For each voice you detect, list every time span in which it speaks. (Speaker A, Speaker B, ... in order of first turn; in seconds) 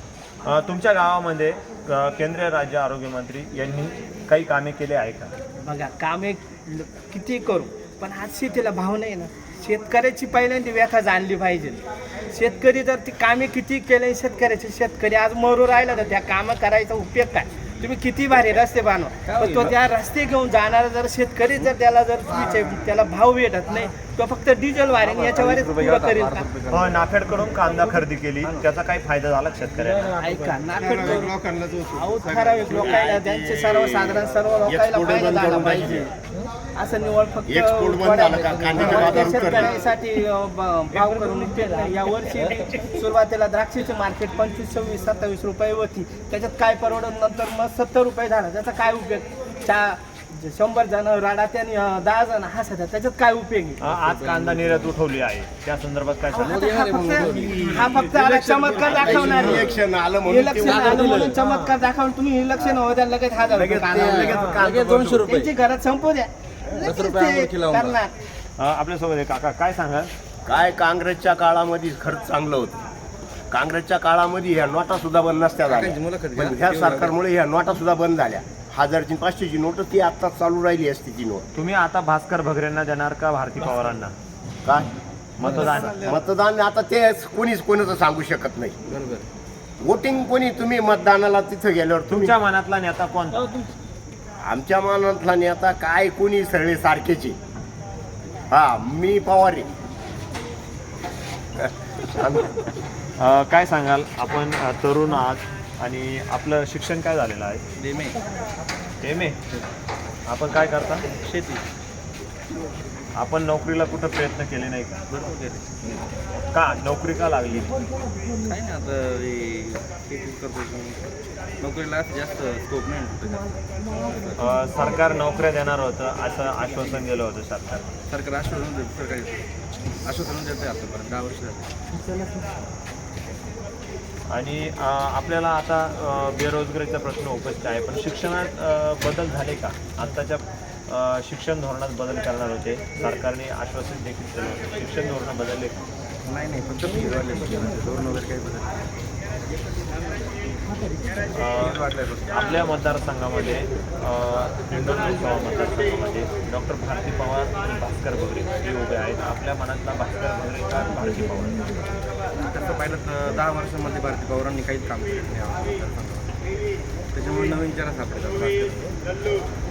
Speaker A: 0.5-5.3, 26.7-30.1, 53.8-56.6, 68.6-70.1, 81.6-84.1, 85.4-86.2, 92.1-93.5, 103.2-107.6, 109.0-109.4, 110.3-111.1, 113.2-115.0, 116.5-117.7, 124.3-127.9, 134.3-145.9, 151.4-161.7
Speaker B: 5.6-26.5, 30.2-31.4, 31.9-36.1, 36.8-53.8, 56.3-68.1
Speaker C: 19.3-19.7, 25.1-27.0, 54.2-54.8, 66.8-67.9, 75.7-77.2, 85.5-86.0, 88.9-89.2, 107.8-108.2, 111.1-111.6, 115.1-116.0, 118.5-124.4, 128.1-129.4, 130.1-131.7, 146.3-148.7, 151.6-152.2, 162.4-166.3, 167.1-168.9
Speaker D: 30.8-36.1, 37.5-39.8, 57.1-57.9, 58.9-61.3, 63.5-65.3, 70.5-72.8, 73.5-81.4, 86.0-88.8, 89.8-92.3, 94.4-97.4, 98.5-99.7, 101.6-102.5